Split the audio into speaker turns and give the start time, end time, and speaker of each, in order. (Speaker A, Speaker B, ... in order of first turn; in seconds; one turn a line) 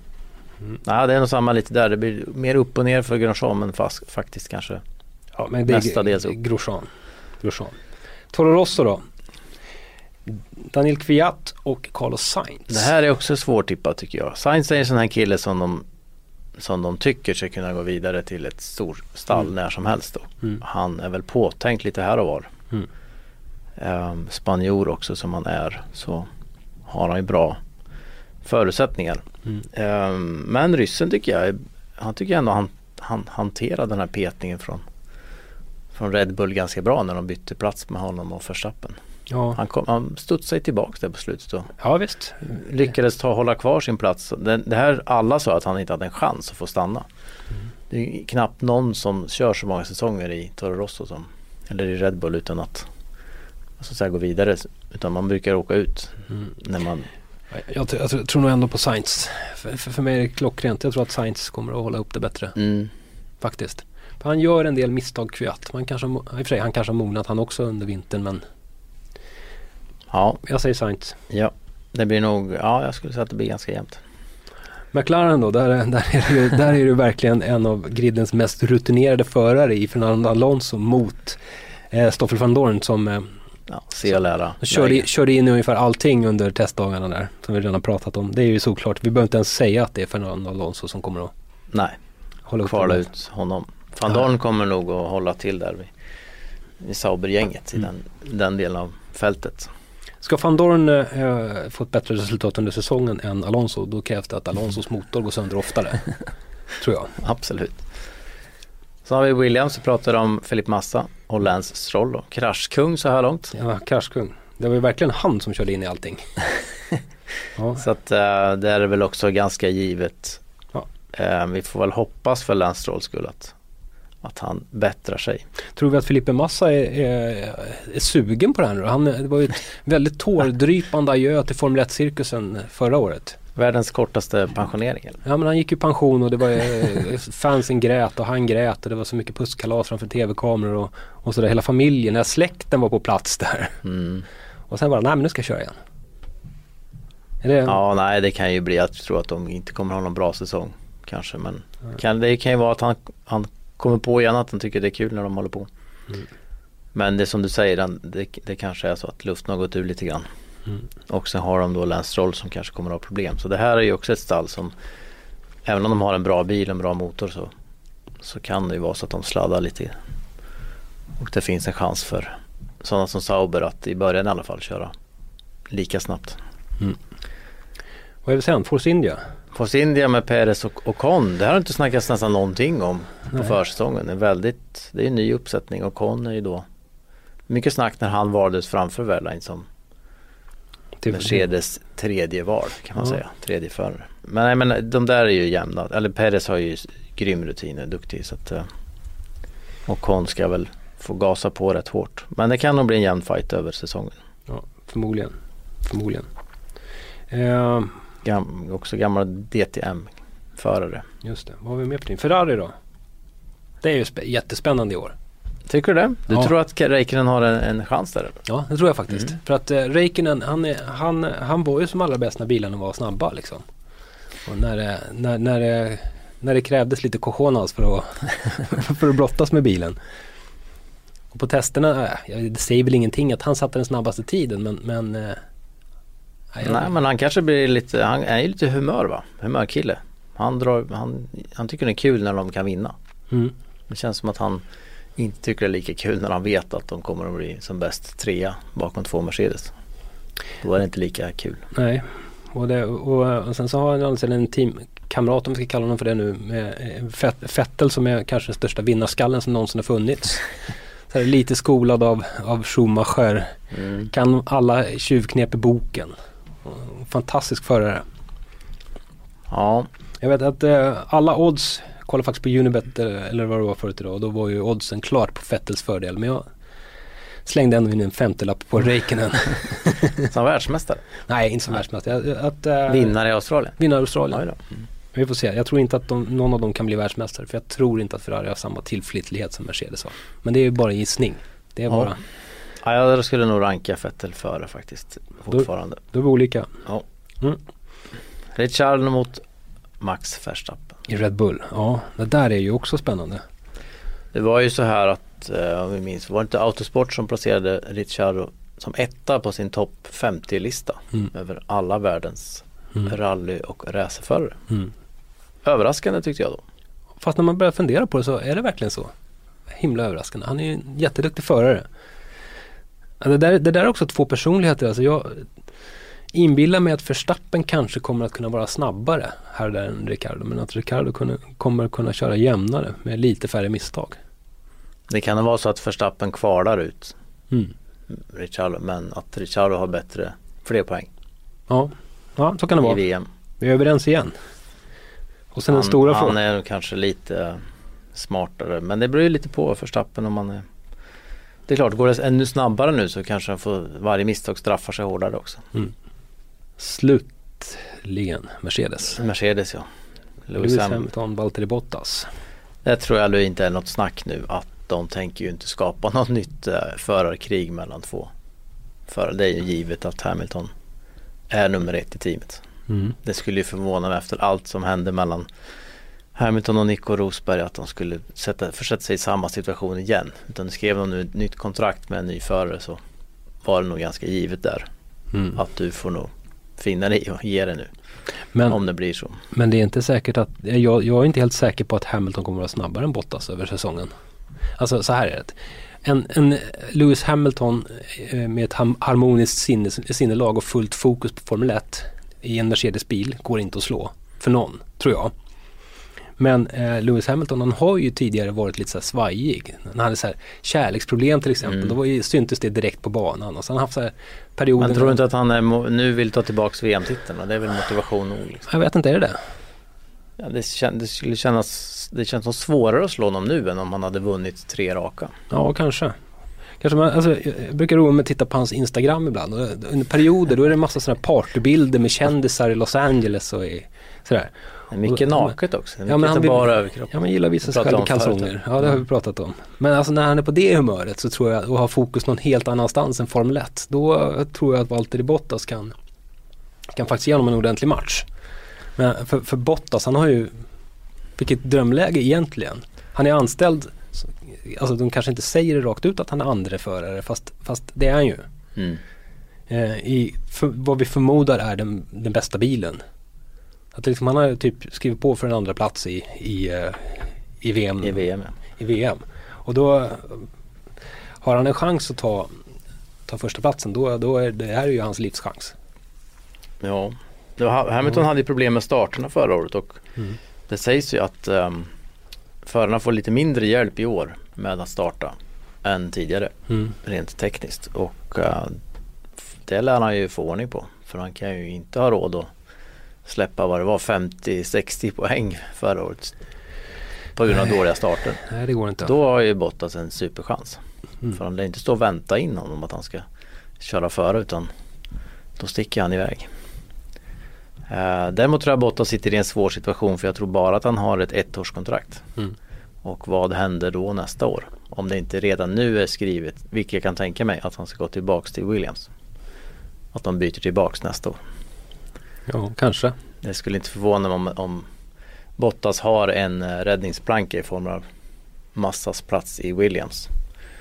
Speaker A: 0.8-4.8
Speaker B: 5.4-6.9
Speaker A: 5.7-6.3
Speaker B: 7.4-7.8
Speaker B: 8.3-9.0
Speaker B: 10.3-12.8
Speaker A: 12.7-15.8
Speaker A: 16.6-22.5
Speaker A: 23.8-26.3
Speaker A: 26.9-27.6
Speaker A: 28.4-34.8
Speaker A: 35.9-39.0
Speaker B: 39.3-39.6
Speaker A: 39.5-41.7
Speaker B: 41.8-42.6
Speaker A: 42.4-47.0
Speaker A: 47.9-52.9
Speaker A: 53.8-57.1
Speaker B: 57.5-62.6
Speaker A: 62.6-62.9
Speaker B: 63.4-68.4
Speaker A: 70.1-70.4
Speaker B: 70.4-71.2
Speaker A: 71.3-74.0
Speaker B: 74.9-81.4
Speaker B: 81.9-83.3
Speaker A: 83.7-85.0
Speaker B: 84.6-91.3
Speaker A: 91.7-92.0
Speaker B: 92.5-93.0
Speaker A: 92.6-95.9
Speaker A: 96.8-99.7
Speaker B: 100.2-106.0
Speaker B: 106.8-107.2
Speaker A: 107.2-107.8
Speaker A: 109.0-113.5
Speaker B: 113.5-116.3
Speaker B: 117.6-117.8
Speaker A: 117.8-120.4
Speaker A: 121.1-123.5
Speaker A: 124.2-125.4
Speaker B: 125.8-133.4
Speaker A: 133.6-135.2
Speaker B: 135.2-143.8
Speaker A: 143.8-144.2
Speaker B: 144.7-145.8
Speaker B: 147.4-147.8
Speaker A: 147.7-155.7
Speaker A: 156.9-160.2
Speaker A: 161.1-164.7
Speaker A: 165.6-167.5
Speaker A: 168.2-169.9
Speaker A: 171.2-174.9
Speaker A: 175.7-176.4
Speaker B: 178.2-179.2
Speaker A: 179.5-186.6
Speaker A: 187.5-189.7
Speaker B: 191.0-191.4
Speaker A: 191.1-198.7
Speaker A: 199.8-204.2
Speaker B: 204.5-206.3
Speaker B: 207.3-207.9
Speaker A: 208.2-211.1
Speaker B: 211.2-212.7
Speaker B: 213.8-215.1
Speaker A: 215.7-218.4
Speaker B: 218.5-223.6
Speaker B: 224.4-230.0
Speaker B: 231.3-235.4
Speaker B: 236.5-236.9
Speaker A: 236.6-242.9
Speaker A: 243.9-244.6
Speaker A: 245.2-249.7
Speaker A: 250.6-251.6
Speaker B: 251.7-260.5
Speaker B: 261.1-263.6
Speaker A: 263.7-264.1
Speaker B: 264.1-268.0
Speaker A: 269.5-269.9
Speaker B: 270.2-276.4
Speaker B: 277.4-280.2
Speaker A: 280.2-281.0
Speaker B: 281.3-283.1
Speaker A: 282.9-283.8
Speaker B: 283.8-284.4
Speaker A: 284.3-284.6
Speaker B: 285.1-292.2
Speaker A: 292.8-296.0
Speaker B: 295.5-296.7
Speaker A: 298.5-299.4
Speaker A: 300.0-301.0
Speaker B: 301.1-303.4
Speaker A: 304.3-314.6
Speaker A: 315.6-316.6
Speaker B: 317.2-319.1
Speaker B: 319.7-321.9
Speaker B: 323.2-325.5
Speaker B: 326.3-334.2
Speaker A: 335.1-337.1
Speaker A: 338.1-341.1
Speaker B: 341.7-343.0
Speaker A: 342.8-343.3
Speaker B: 343.6-344.3
Speaker B: 345.5-346.4
Speaker A: 345.7-350.6
Speaker A: 351.7-355.6
Speaker B: 356.8-359.2
Speaker A: 359.1-359.9
Speaker A: 360.5-361.1
Speaker B: 360.6-362.3
Speaker A: 362.8-368.3
Speaker A: 369.1-370.7
Speaker A: 371.5-372.6
Speaker B: 372.9-373.2
Speaker A: 373.2-375.5
Speaker A: 376.3-383.0
Speaker A: 383.6-384.9
Speaker A: 385.5-387.9
Speaker A: 388.7-389.4
Speaker B: 389.5-394.1
Speaker B: 394.8-405.3
Speaker B: 406.4-415.2
Speaker A: 411.7-411.9
Speaker A: 414.8-418.7
Speaker B: 418.7-419.4
Speaker A: 420.4-425.3
Speaker B: 425.5-426.1
Speaker B: 426.8-434.5
Speaker A: 434.9-438.5
Speaker B: 435.1-435.5
Speaker B: 436.1-445.9
Speaker B: 446.9-448.2
Speaker B: 449.0-450.6
Speaker B: 451.4-458.5
Speaker A: 458.8-459.0
Speaker B: 459.7-463.0
Speaker B: 463.9-468.2
Speaker A: 468.0-468.5
Speaker B: 468.8-470.5
Speaker B: 471.4-472.5
Speaker B: 473.3-475.7
Speaker A: 476.8-480.0
Speaker A: 480.7-481.9
Speaker A: 482.6-488.8
Speaker A: 489.6-492.5
Speaker A: 493.2-496.4
Speaker A: 497.4-498.4
Speaker B: 498.5-499.1
Speaker A: 499.0-503.2
Speaker A: 503.8-504.7
Speaker A: 505.6-506.5
Speaker A: 507.9-512.2
Speaker A: 513.0-519.1
Speaker A: 520.1-521.4
Speaker B: 522.5-523.1
Speaker A: 523.4-524.9
Speaker A: 525.6-528.0
Speaker A: 528.7-530.3